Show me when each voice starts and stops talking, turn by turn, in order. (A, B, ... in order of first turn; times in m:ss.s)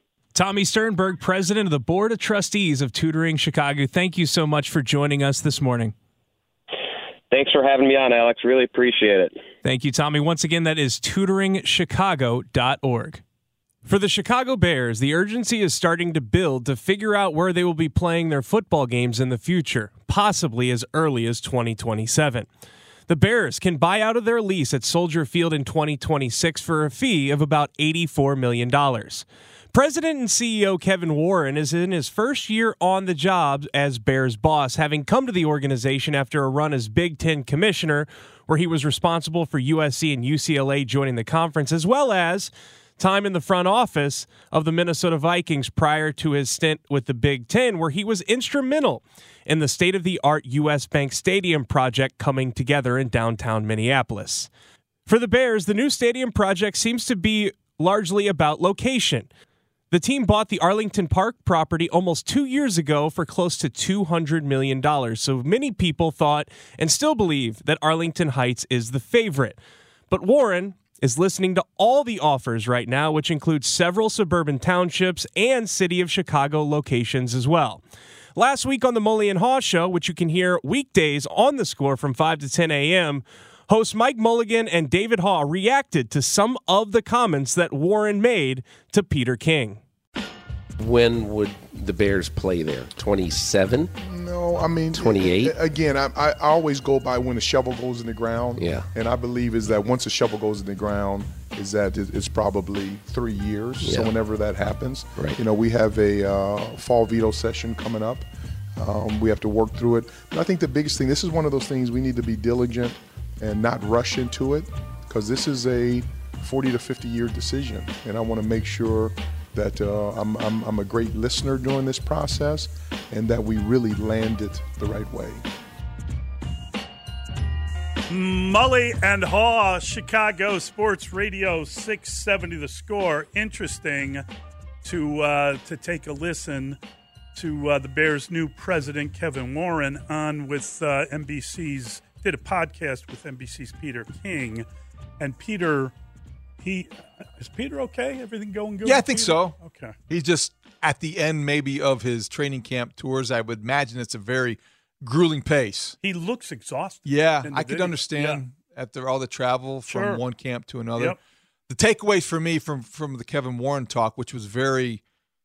0:00.3-0:06.0 A
0:07.3-0:09.4 B
0:09.6-0:13.2 A
0:13.8-0:22.5 A
0:23.1-0:54.5 A
0:55.1-0:59.3 A
0:59.9-1:17.8 A
1:18.4-1:29.8 A
1:30.8-1:33.9 C
1:34.0-1:48.2 D
1:34.9-1:35.6 C
1:38.6-1:38.9 C
1:43.8-1:44.1 C
1:48.8-2:05.4 D
2:08.1-2:14.2 E
2:14.8-2:16.8 E
2:17.3-2:24.7 E
2:25.2-2:25.9 E
2:26.6-2:30.0 E
2:28.8-2:36.0 F
2:36.0-2:38.4 E
2:37.0-2:41.2 F
2:39.9-2:40.2 E
2:41.7-2:45.0 F